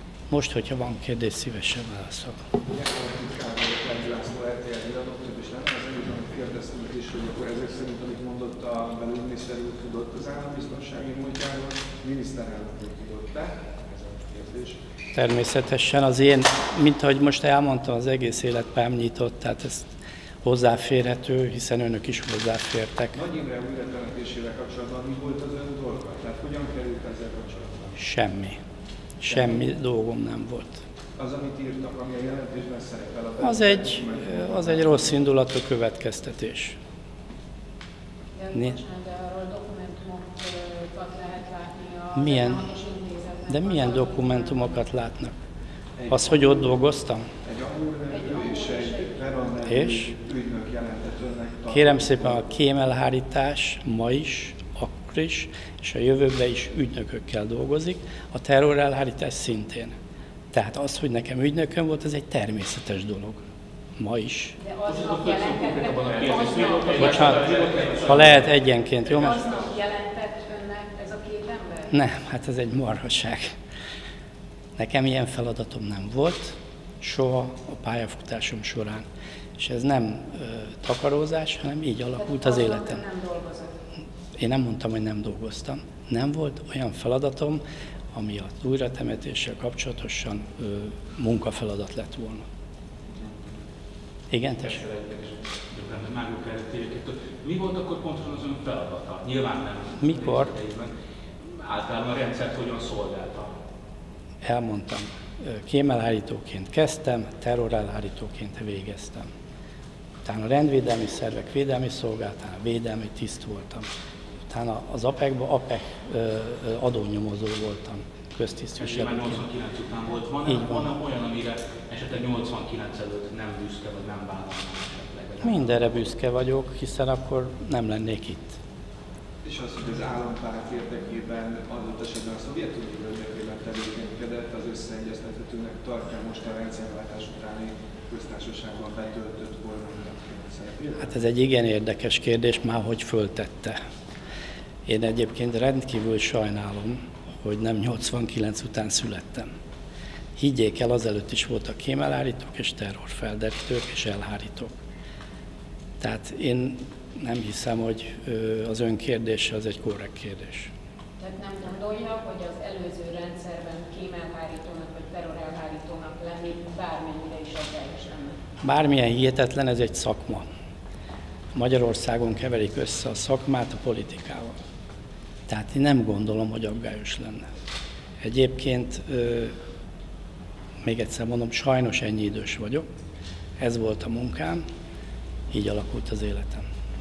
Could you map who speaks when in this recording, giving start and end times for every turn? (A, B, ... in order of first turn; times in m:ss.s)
0:00.3-0:02.4 A
0:02.7-0:14.8 B
0:15.1-0:23.2 A
0:23.1-0:27.8 B
0:28.0-0:28.6 A
0:29.2-0:30.8 A
0:31.2-0:35.1 B
0:33.4-0:36.8 A
0:38.4-0:44.7 C
0:42.2-0:42.7 A
0:43.5-0:45.4 A
0:46.0-0:46.4 B
0:46.1-0:47.3 A
0:47.4-0:52.4 B
0:48.1-0:49.1 C
0:49.7-0:50.1 A
0:51.7-1:00.0 A
1:00.5-1:03.5 A
1:04.0-1:04.6 A
1:04.6-1:07.7 C
1:04.9-1:08.4 D
1:07.0-1:09.4 A
1:09.2-1:11.9 C
1:11.9-1:13.6 A
1:14.8-1:19.1 A
1:19.6-1:23.0 A
1:22.2-1:23.7 C
1:24.4-1:27.6 A
1:28.1-1:32.4 A
1:34.3-1:34.8 A
1:34.7-1:40.9 D
1:40.0-1:40.5 A
1:41.5-1:43.5 D
1:44.4-1:49.3 A
1:50.2-1:53.9 A
1:54.5-1:59.4 A
1:58.8-2:05.9 D
2:00.4-2:00.9 A
2:05.4-2:08.6 A
2:09.4-2:21.0 B
2:21.0-2:23.8 A
2:24.9-2:29.5 A
2:30.4-2:34.8 A
2:36.0-2:40.7 A
2:41.2-2:48.4 C
2:48.6-2:50.5 A
2:51.5-2:54.6 A
2:55.5-2:57.4 A
2:58.2-2:59.6 A
3:00.8-3:02.9 A
3:03.6-3:04.6 A
3:05.5-3:06.7 A